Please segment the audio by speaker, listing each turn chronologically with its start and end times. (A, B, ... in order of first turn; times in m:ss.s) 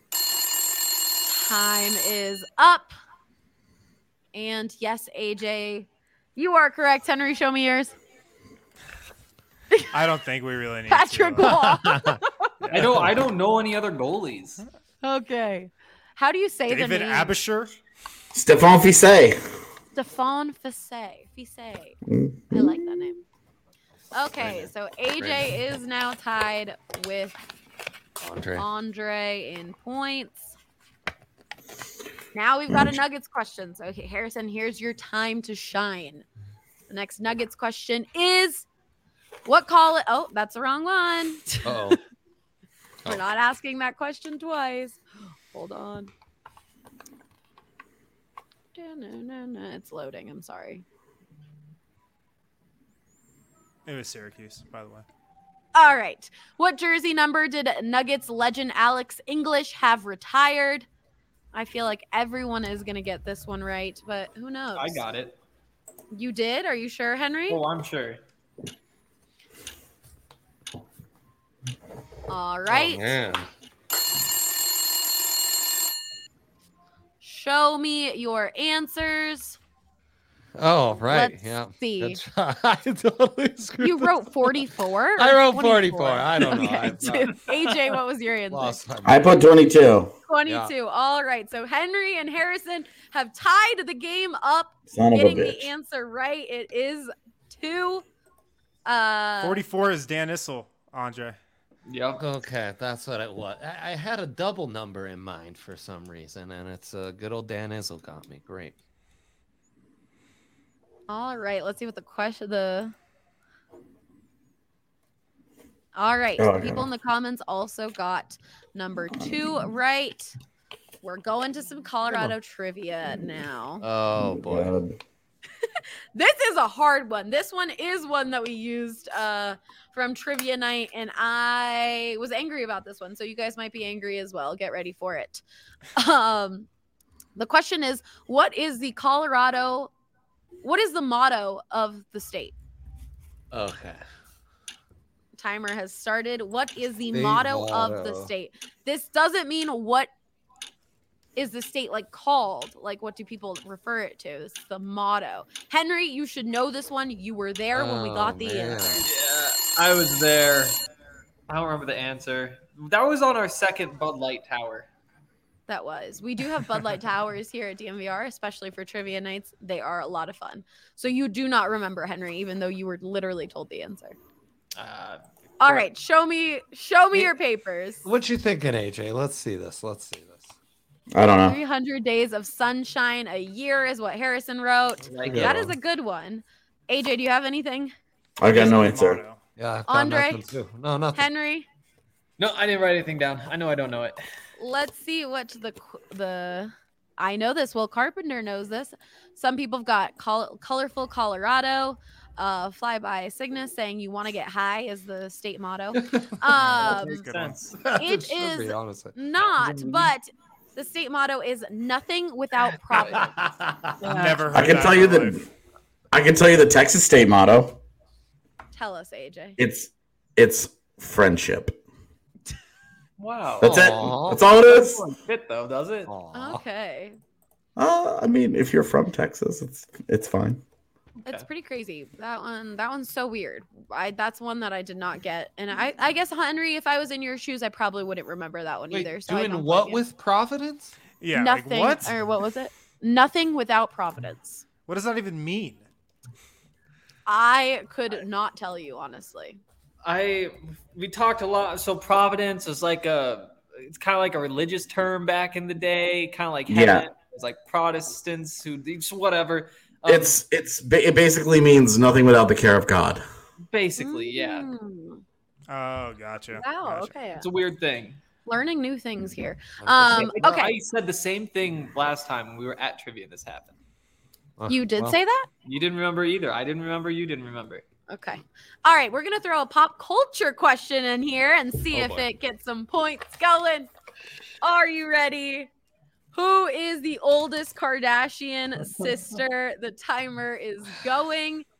0:01.2-0:02.9 A
0:04.3-0:07.9 A
0:09.9-0:11.6 B
0:10.9-0:12.5 A
0:11.4-0:12.2 C
0:12.6-0:13.1 B
0:12.7-0:14.6 D
0:15.0-0:17.4 A
0:16.7-0:17.7 B
0:18.3-0:19.4 E
0:19.9-0:22.0 A
0:22.1-0:22.8 E
0:22.5-0:23.2 A
0:24.1-0:27.4 A
0:24.3-0:25.5 C
0:28.2-0:28.6 C
0:28.6-0:30.6 A
0:32.3-0:36.2 A
0:36.9-0:38.6 A
0:39.4-0:42.0 A
0:41.6-0:42.0 C
0:43.0-0:45.0 A
0:45.5-0:46.1 A
0:48.7-0:50.8 A
0:53.8-0:55.0 B
0:55.7-1:00.8 A
1:01.5-1:05.1 A
1:04.8-1:05.4 D
1:06.1-1:07.6 A
1:07.5-1:08.2 D
1:12.3-1:13.1 A
1:12.7-1:13.5 C
1:17.2-1:19.6 A
1:20.6-1:24.6 C
1:21.1-1:22.2 A
1:23.8-1:28.8 A
1:25.2-1:27.4 C
1:28.5-1:29.6 C
1:29.0-1:30.1 E
1:30.3-1:38.0 A
1:30.4-1:30.7 C
1:34.9-1:35.7 E
1:38.8-1:39.6 A
1:39.4-1:41.4 B
1:41.9-1:42.2 D
1:42.2-1:48.8 C
1:51.1-1:52.9 A
1:55.9-2:00.3 A
1:56.4-1:56.9 E
2:01.0-2:03.8 A
2:03.8-2:04.8 C
2:04.2-2:05.0 E
2:05.6-2:15.4 A
2:16.0-2:16.7 A
2:17.4-2:19.9 A
2:20.6-2:22.5 A
2:23.5-2:24.0 C
2:25.4-2:30.1 A
2:27.1-2:28.3 C
2:31.4-2:39.0 A
2:37.7-2:39.0 C
2:39.0-2:40.8 D
2:41.5-2:44.9 D
2:45.7-2:54.2 A
2:54.7-2:55.9 D
2:55.6-2:58.0 A
2:58.0-3:00.5 C
3:01.1-3:01.6 E
3:01.4-3:07.9 A
3:05.1-3:05.5 D
3:05.2-3:05.7 C
3:08.4-3:09.2 E
3:08.5-3:09.4 B
3:09.6-3:11.2 C
3:09.9-3:10.5 A
3:11.1-3:11.6 A
3:12.4-3:14.2 D
3:14.6-3:27.2 A
3:26.0-3:26.3 C
3:26.5-3:27.6 B
3:26.8-3:27.8 D
3:27.8-3:29.1 C
3:27.9-3:33.3 A
3:29.4-3:30.1 D
3:32.9-3:34.2 C
3:33.0-3:33.2 D
3:34.0-3:34.4 A
3:34.1-3:35.4 B
3:34.5-3:35.4 E
3:36.1-3:37.8 E
3:38.7-3:39.6 A
3:39.6-3:41.8 E
3:43.2-3:46.1 D
3:43.6-3:45.0 E
3:43.6-3:44.4 C
3:46.0-3:46.6 C
3:46.3-3:47.2 A
3:47.8-3:50.6 E
3:51.2-4:00.0 A
3:58.9-4:01.0 C
4:01.2-4:02.2 B
4:01.3-4:04.6 A
4:04.8-4:05.8 B
4:07.3-4:09.6 A
4:10.0-4:20.4 D
4:16.7-4:17.1 E
4:20.0-4:23.2 E
4:23.7-4:24.7 D
4:24.0-4:25.2 A
4:25.7-4:27.1 B
4:26.5-4:27.4 A
4:27.4-4:28.2 D
4:28.4-4:30.8 A
4:29.8-4:30.4 C
4:30.2-4:33.7 D
4:34.6-4:35.2 C
4:34.7-4:35.5 A
4:35.6-4:37.8 D
4:38.1-4:43.9 A
4:41.9-4:42.2 C
4:44.6-4:45.7 A
4:46.3-4:51.6 A